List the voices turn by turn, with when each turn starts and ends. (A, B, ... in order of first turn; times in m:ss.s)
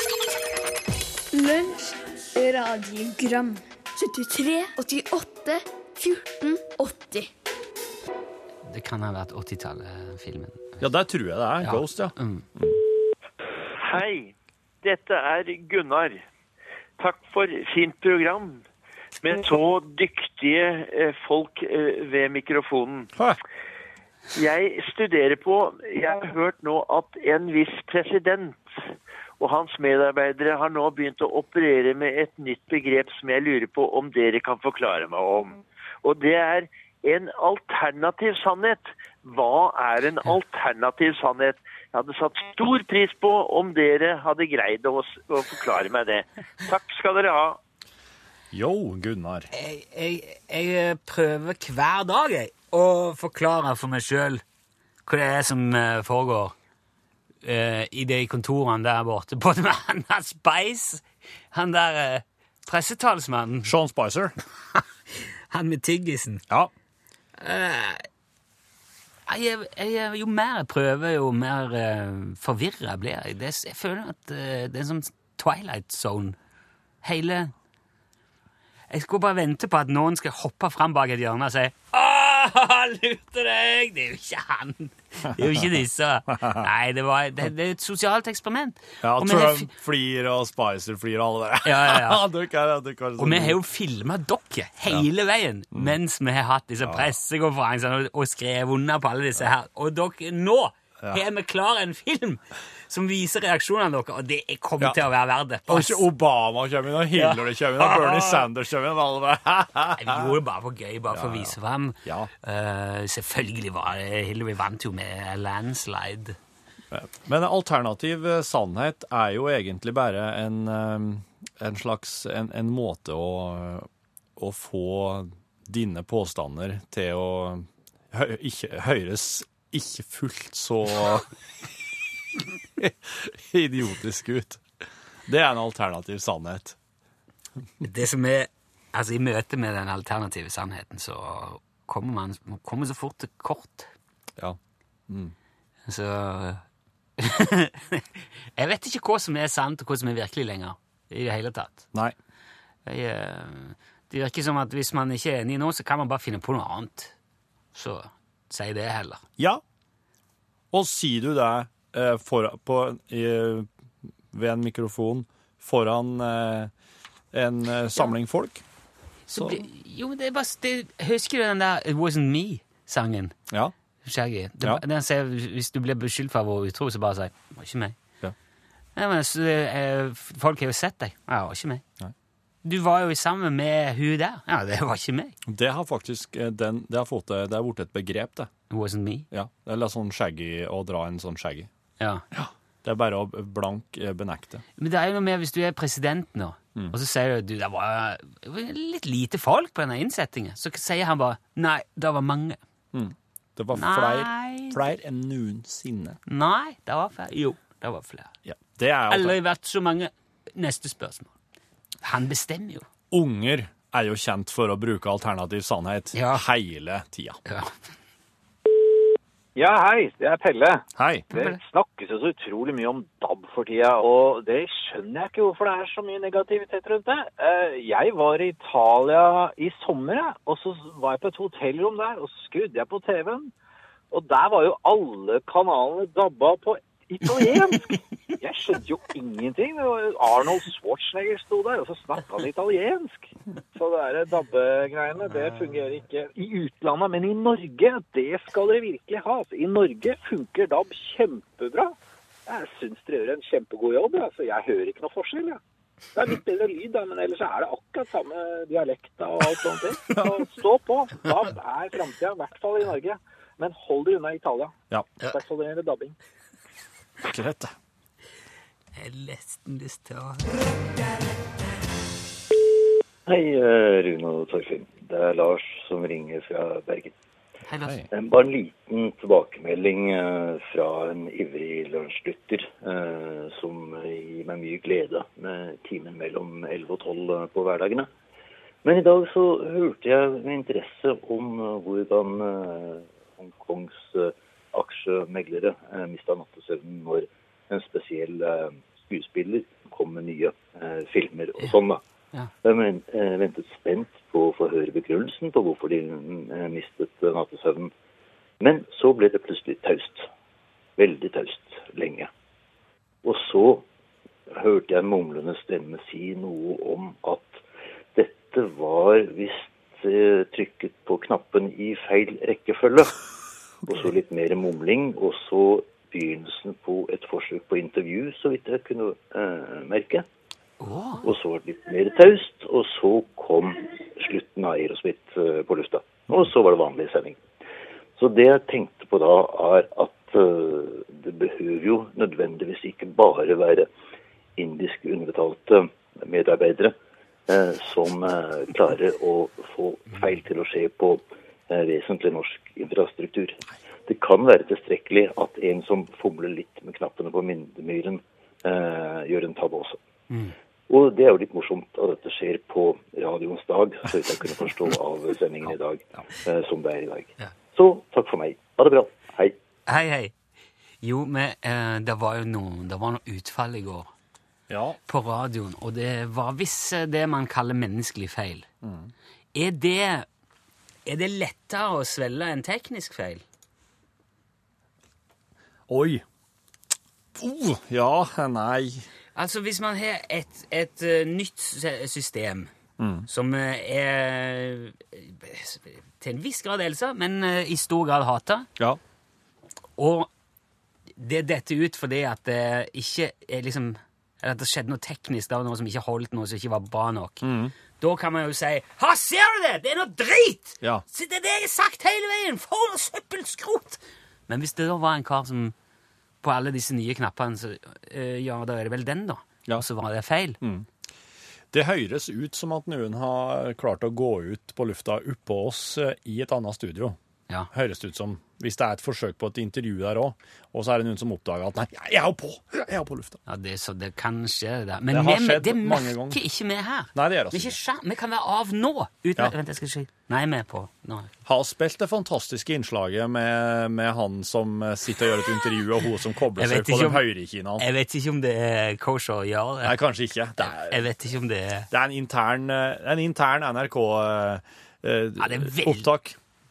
0:01.3-0:07.3 A
0:08.6-0:10.8 B
0:10.8-0:12.8 C
0:11.6-0:12.4 B
0:13.8-0:16.2 D
0:17.0-0:18.6 D
0:19.2-0:23.1 D
0:24.3-0:47.6 D
0:48.5-0:49.5 C
0:49.5-0:54.4 B
0:55.0-0:56.5 B
0:57.4-1:03.7 B
1:03.6-1:04.3 C
1:04.7-1:06.4 B
1:07.4-1:08.1 B
1:09.3-1:16.4 B
1:17.0-1:17.5 B
1:18.9-1:29.7 B
1:29.0-1:33.6 C
1:31.6-1:32.2 B
1:33.2-1:46.1 B
1:36.8-1:37.1 C
1:45.7-1:50.4 C
1:47.2-1:48.4 B
1:50.0-1:56.4 B
1:51.1-1:52.3 C
1:56.9-2:11.3 C
2:12.8-2:14.6 C
2:15.2-2:16.8 C
2:17.8-2:23.9 B
2:25.1-2:25.3 C
2:25.8-2:26.6 B
2:27.2-2:31.8 B
2:32.8-2:37.1 B
2:37.7-2:39.2 B
2:40.7-2:43.7 C
2:44.3-2:46.7 C
2:47.3-2:48.6 C
2:49.3-2:53.3 B
2:49.3-2:49.6 C
2:54.0-2:58.0 B
2:59.0-3:01.8 B
3:02.6-3:05.4 B
3:05.4-3:08.5 C
3:08.7-3:09.2 B
3:09.3-3:11.7 C
3:12.0-3:12.2 B
3:12.3-3:14.6 C
3:14.8-3:22.6 B
3:22.9-3:26.2 C
3:23.7-3:24.8 B
3:26.3-3:28.3 B
3:28.4-3:29.4 C
3:29.1-3:31.3 B
3:32.0-3:32.8 B
3:33.1-3:37.4 C
3:36.1-3:36.4 B
3:37.4-3:37.7 B
3:39.6-3:53.5 E
3:41.0-3:41.3 C
3:54.1-4:11.9 E
4:12.4-4:15.6 E
4:16.1-4:26.2 E
4:27.2-4:27.7 C
4:28.9-4:30.6 B
4:33.2-4:37.1 F
4:37.6-4:38.0 B
4:38.1-4:48.1 F
4:48.8-5:02.0 F
5:02.6-5:07.9 F
5:08.6-5:10.3 F
5:11.0-5:12.3 F
5:13.2-5:13.8 F
5:14.5-5:17.6 F
5:18.1-5:23.2 F
5:23.8-5:30.2 F
5:30.8-5:31.2 B
5:31.2-5:37.4 F
5:38.2-5:43.9 F
5:44.6-5:46.9 F
5:47.5-6:00.0 F
6:00.9-6:09.6 F
6:09.9-6:10.3 B
6:11.0-6:14.1 B
6:14.7-6:15.0 C
6:15.1-6:18.7 B
6:18.8-6:19.1 C
6:19.5-6:20.3 B
6:21.0-6:23.4 B
6:25.9-6:26.2 C
6:27.4-6:29.0 C
6:29.3-6:32.7 B
6:33.0-6:33.3 C
6:33.3-6:38.7 B
6:40.0-6:40.3 B
6:41.2-6:55.7 B
6:47.4-6:47.7 C
6:56.4-7:00.6 B
7:00.6-7:00.9 C
7:01.7-7:07.2 C
7:07.7-7:13.4 C
7:13.4-7:21.3 B
7:15.1-7:16.4 C
7:17.1-7:17.8 C
7:21.4-7:27.8 C
7:26.6-7:27.2 B
7:27.8-7:30.0 B
7:29.8-7:31.1 C
7:30.6-7:31.9 B
7:31.9-7:36.4 C
7:35.4-7:36.1 B